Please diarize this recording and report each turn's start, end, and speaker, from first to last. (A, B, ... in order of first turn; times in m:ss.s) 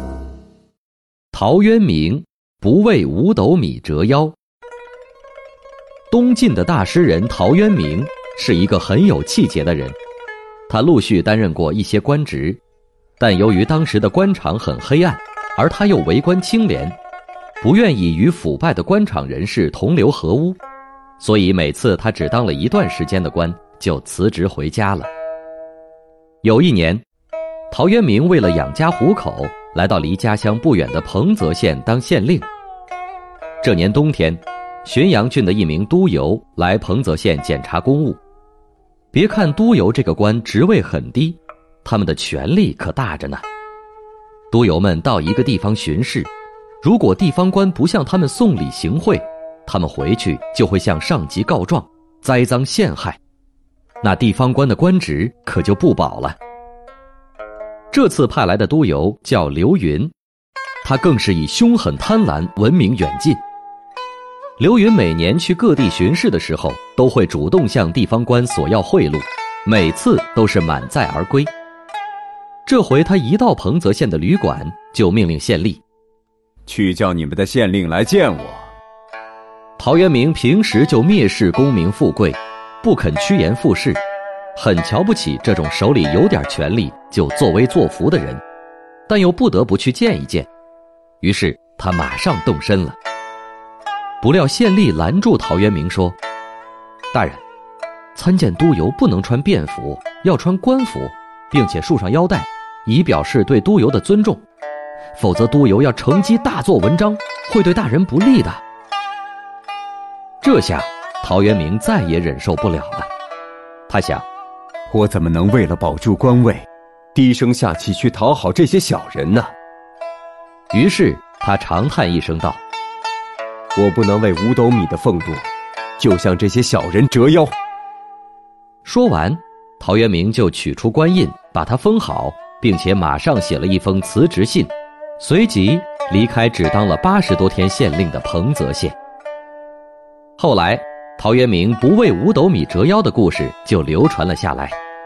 0:01.3-0:04.4 A
0:06.1-0:10.0 A
0:10.7-0:12.6 A
0:13.2-0:17.0 A
0:17.6-0:20.6 A
0:21.2-0:25.1 A
0:26.4-0:27.0 A
0:27.7-0:32.5 A
0:33.6-0:38.2 A
0:39.1-0:43.4 A
0:44.5-0:46.3 A
0:46.8-0:53.2 A
0:54.0-0:56.4 A
0:57.9-1:00.1 A
1:00.8-1:03.4 A
1:04.6-1:11.5 A
1:12.7-1:15.8 A
1:16.7-1:18.7 B
1:19.8-1:24.0 A
1:24.6-1:28.4 A
1:29.1-1:30.5 A
1:31.2-1:33.0 A
1:34.2-1:36.2 A
1:37.1-1:37.4 A
1:38.2-1:44.4 A
1:45.2-1:48.6 A
1:50.4-1:53.1 A
1:53.9-1:54.2 A
1:54.9-1:59.5 B
2:00.7-2:02.6 A
2:03.8-2:07.5 B
2:08.8-2:19.0 A
2:20.4-2:24.8 A